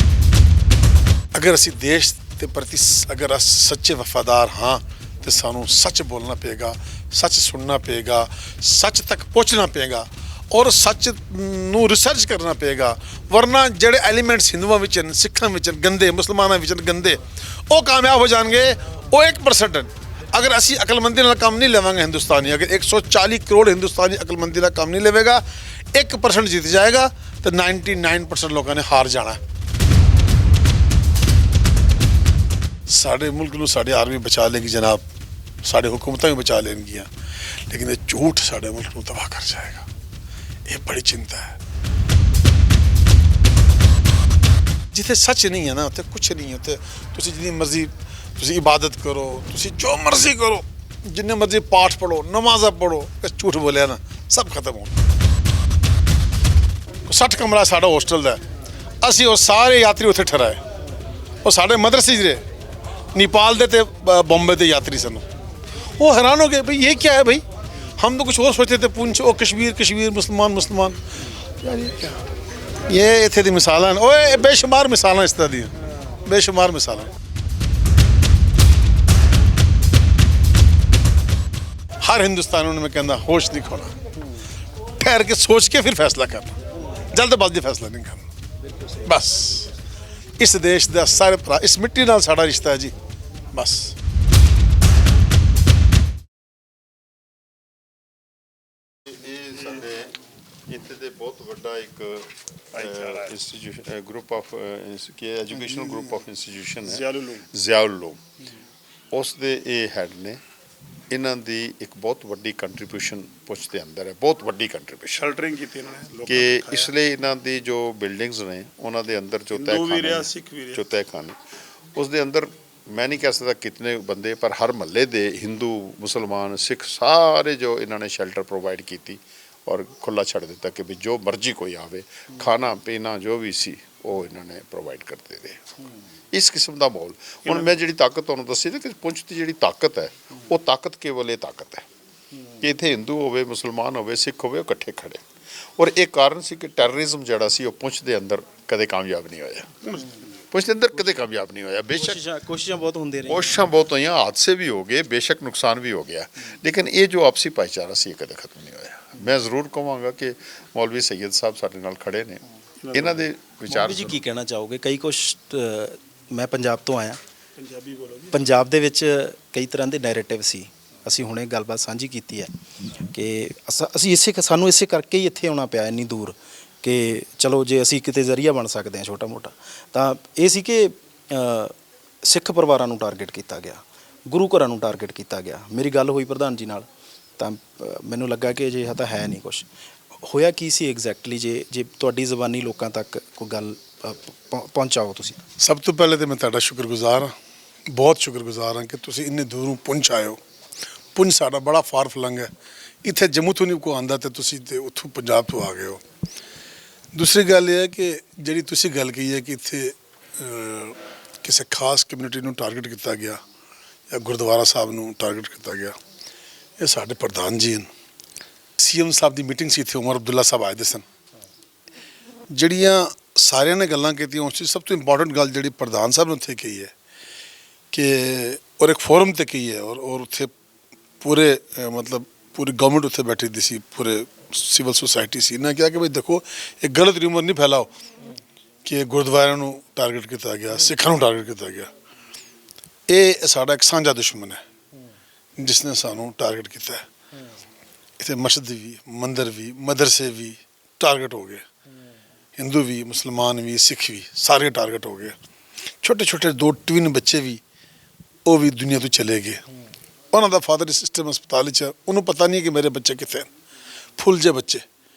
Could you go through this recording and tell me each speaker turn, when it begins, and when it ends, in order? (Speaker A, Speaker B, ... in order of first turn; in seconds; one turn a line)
Speaker A: 1.3-29.4
Speaker A: 32.9-35.0
Speaker A: 35.6-37.1
Speaker A: 37.7-39.9
Speaker A: 40.7-41.6
Speaker A: 44.9-54.9
Speaker A: 57.1-58.4
Speaker A: 59.0-60.6
Speaker A: 61.4-62.4
Speaker A: 63.1-65.2
Speaker A: 66.0-67.4
Speaker A: 68.0-71.0
Speaker A: 71.6-72.2
Speaker A: 72.9-75.7
Speaker A: 76.2-77.1
Speaker A: 82.0-83.9
Speaker A: 85.0-86.5
Speaker A: 87.1-88.2
Speaker A: 89.0-89.7
Speaker A: 90.4-92.9
Speaker A: 93.5-94.0
Speaker B: 99.1-100.1
Speaker B: 100.7-108.2
Speaker C: 102.7-103.3
Speaker C: 106.8-107.4
Speaker B: 109.1-110.4
Speaker B: 111.1-115.3
Speaker C: 115.1-116.9
Speaker B: 116.2-121.4
Speaker C: 119.5-120.8
Speaker B: 122.0-135.6
Speaker B: 136.3-141.9
Speaker B: 142.6-145.2
Speaker B: 145.8-149.9
Speaker B: 150.5-152.2
Speaker D: 151.9-153.5
Speaker B: 153.3-164.2
Speaker C: 162.8-163.2
Speaker D: 163.7-167.2
Speaker C: 167.6-168.3
Speaker D: 168.3-186.9
Speaker D: 187.4-189.7
Speaker D: 190.2-195.4
Speaker A: 195.6-197.3
Speaker A: 197.9-200.4
Speaker A: 201.2-202.5
Speaker A: 203.0-206.0
Speaker A: 207.1-213.4
Speaker A: 214.1-215.9
Speaker A: 216.8-217.9
Speaker A: 218.8-221.1
Speaker A: 222.5-226.9
Speaker A: 227.9-230.5
Speaker A: 231.2-237.9
Speaker A: 238.8-241.9
Speaker A: 243.1-244.6
Speaker A: 245.6-247.1
Speaker A: 248.2-251.7
Speaker A: 252.6-255.3
Speaker A: 256.0-257.6
Speaker A: 258.5-259.6
Speaker A: 260.3-263.5
Speaker A: 264.2-264.8